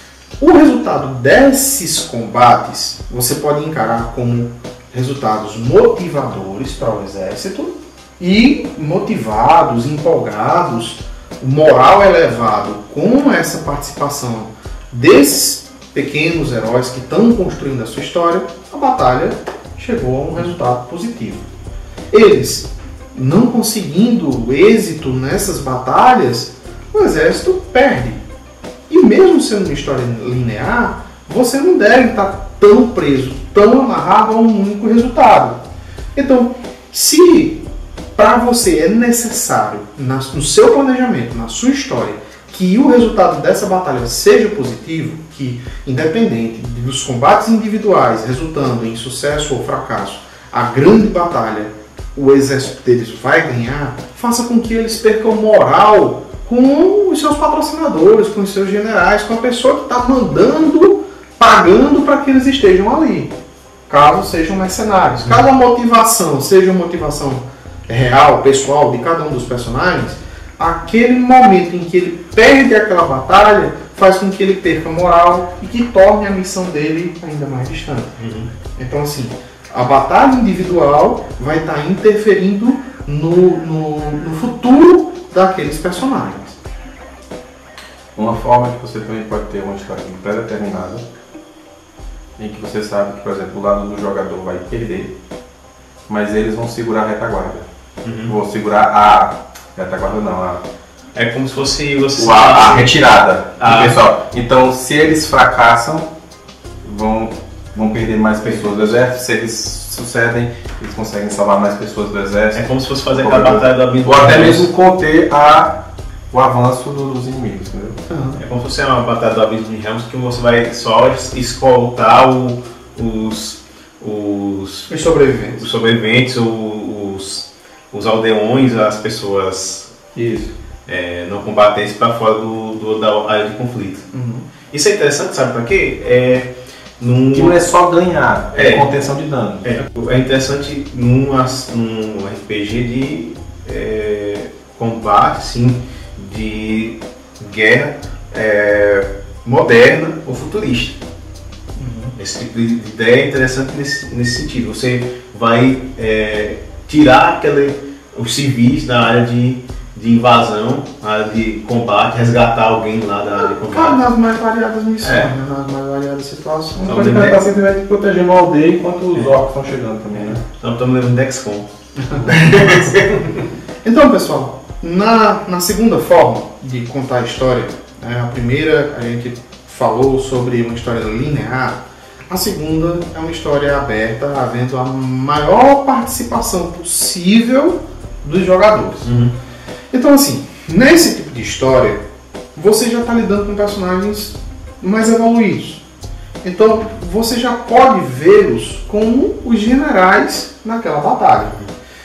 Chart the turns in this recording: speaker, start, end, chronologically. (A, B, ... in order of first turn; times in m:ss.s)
0:00.4-0:21.4 A
0:22.1-0:28.2 A
0:28.9-0:35.6 A
0:36.1-0:37.6 A
0:38.2-1:03.3 A
1:03.9-1:18.2 A
1:05.1-1:05.4 B
1:18.2-1:18.5 B
1:18.8-1:26.6 A
1:28.1-1:31.0 C
1:32.4-1:35.1 C
1:36.1-1:37.6 C
1:38.0-1:38.3 B
1:38.2-1:40.6 C
1:41.1-1:42.9 B
1:42.2-1:46.1 C
1:43.6-1:44.0 B
1:46.8-1:58.0 C
1:52.5-1:54.7 B
1:58.1-1:58.4 A
1:58.4-2:09.9 B
2:04.9-2:05.6 A
2:10.1-2:10.5 C
2:10.8-2:14.1 B
2:14.1-2:14.4 A
2:14.7-2:17.6 B
2:17.3-2:19.7 C
2:18.5-2:19.0 B
2:19.6-2:31.0 B
2:31.8-2:32.1 A
2:32.2-2:44.0 B
2:43.5-2:47.1 A
2:45.0-2:45.3 B
2:46.8-2:50.4 C
2:46.8-2:47.5 B
2:50.1-2:51.7 B
2:52.0-2:52.9 A
2:52.2-2:53.5 B
2:53.8-3:09.1 A
3:09.0-3:09.3 B
3:09.9-3:12.0 A
3:12.5-3:15.8 A
3:16.4-3:21.6 A